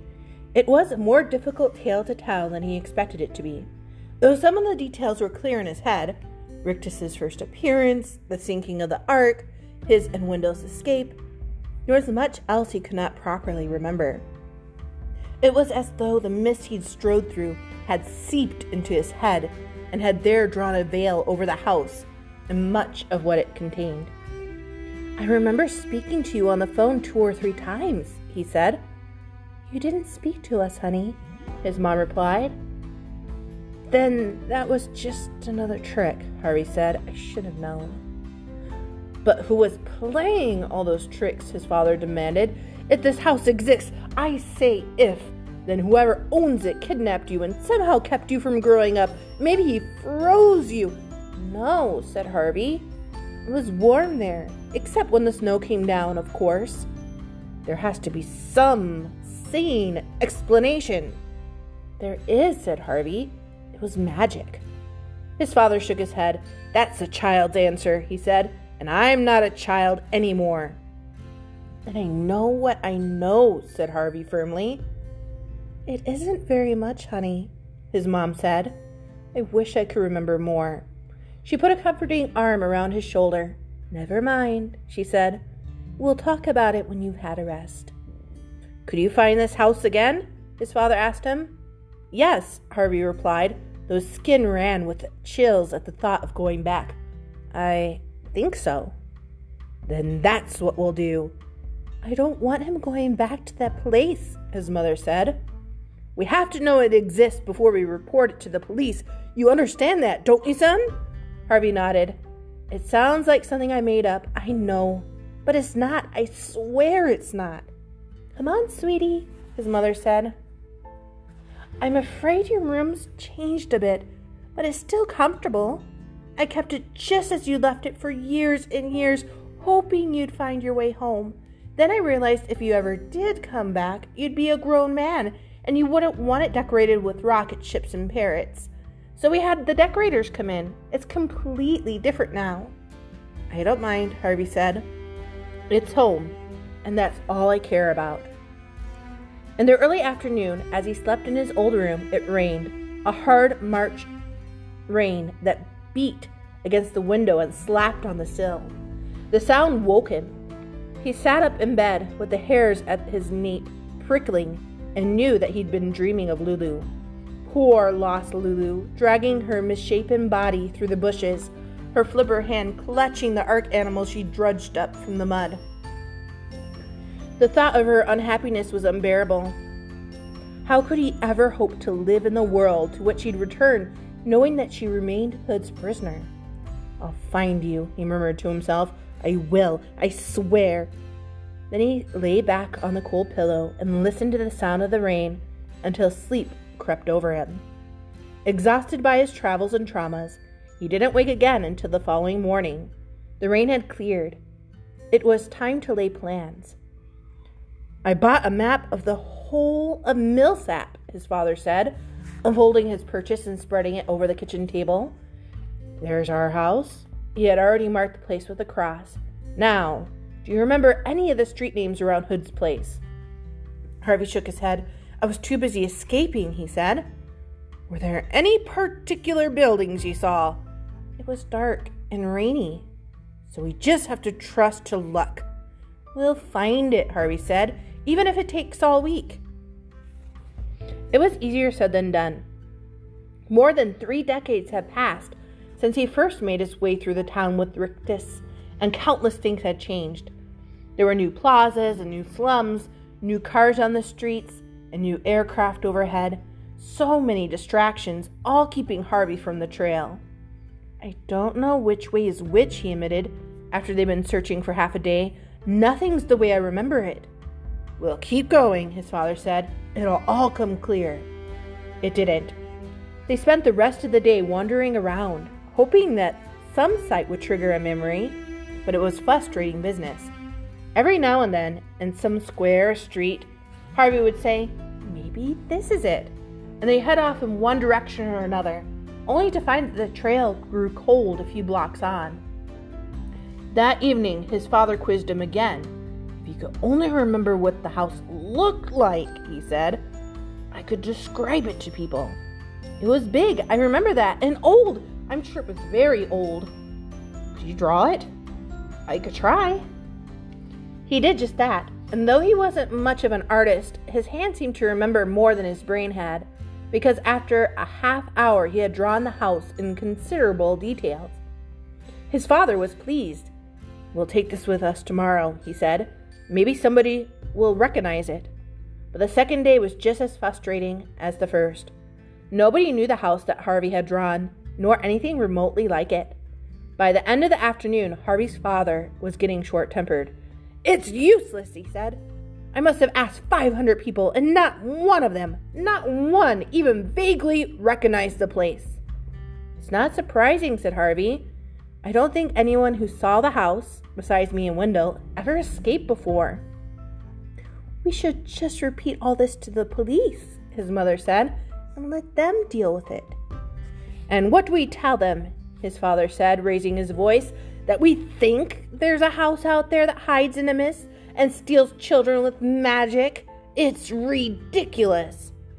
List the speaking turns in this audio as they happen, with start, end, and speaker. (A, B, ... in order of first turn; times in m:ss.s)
0:00.5-0:03.7 A
0:04.2-0:11.2 A
0:11.8-0:14.2 A
0:15.4-0:24.1 A
0:25.2-0:28.8 A
0:29.6-0:32.5 A
0:33.9-0:38.0 A
0:39.2-0:52.9 A
0:53.4-0:56.9 A
0:57.6-1:01.2 A
1:02.0-1:04.6 A
1:05.4-1:10.8 A
1:11.8-1:14.8 A
1:15.8-1:18.8 A
1:19.3-1:20.8 A
1:21.4-1:25.4 A
1:26.0-1:27.9 A
1:28.8-1:31.5 A
1:32.1-1:37.0 A
1:37.5-1:38.9 A
1:39.8-1:41.3 A
1:42.0-1:45.4 A
1:46.2-1:50.9 A
1:51.5-1:52.2 A
1:52.7-1:57.7 A
1:58.3-2:00.3 A
2:01.8-2:22.7 A
2:23.5-2:24.8 A
2:25.7-2:28.3 A
2:29.6-2:34.1 A
2:34.9-2:38.7 A
2:39.3-2:40.3 A
2:41.0-2:46.9 A
2:47.4-2:55.6 A
2:57.4-2:59.6 A
3:00.6-3:06.3 A
3:07.0-3:10.9 A
3:11.7-3:17.6 A
3:18.4-3:24.4 A
3:25.1-3:26.8 A
3:28.0-3:35.1 A
3:36.0-3:43.0 A
3:44.0-3:47.0 A
3:47.9-3:50.6 A
3:51.2-3:52.9 A
3:53.5-3:55.5 A
3:56.1-3:59.4 A
4:01.1-4:02.4 A
4:03.5-4:10.3 A
4:11.0-4:20.2 A
4:21.0-4:27.3 A
4:28.0-4:31.3 A
4:32.0-4:32.6 A
4:33.3-4:40.3 A
4:40.9-4:52.4 A
4:53.7-5:00.0 A
5:00.7-5:02.4 A
5:03.0-5:06.7 A
5:07.5-5:08.3 A
5:09.1-5:09.8 A
5:11.0-5:21.4 A
5:22.3-5:23.5 A
5:24.1-5:28.5 A
5:29.1-5:31.9 A
5:32.5-5:36.4 A
5:37.0-5:42.2 A
5:42.7-5:49.0 A
5:49.8-5:51.5 A
5:52.0-5:56.6 A
5:58.0-6:03.4 A
6:04.3-6:15.5 A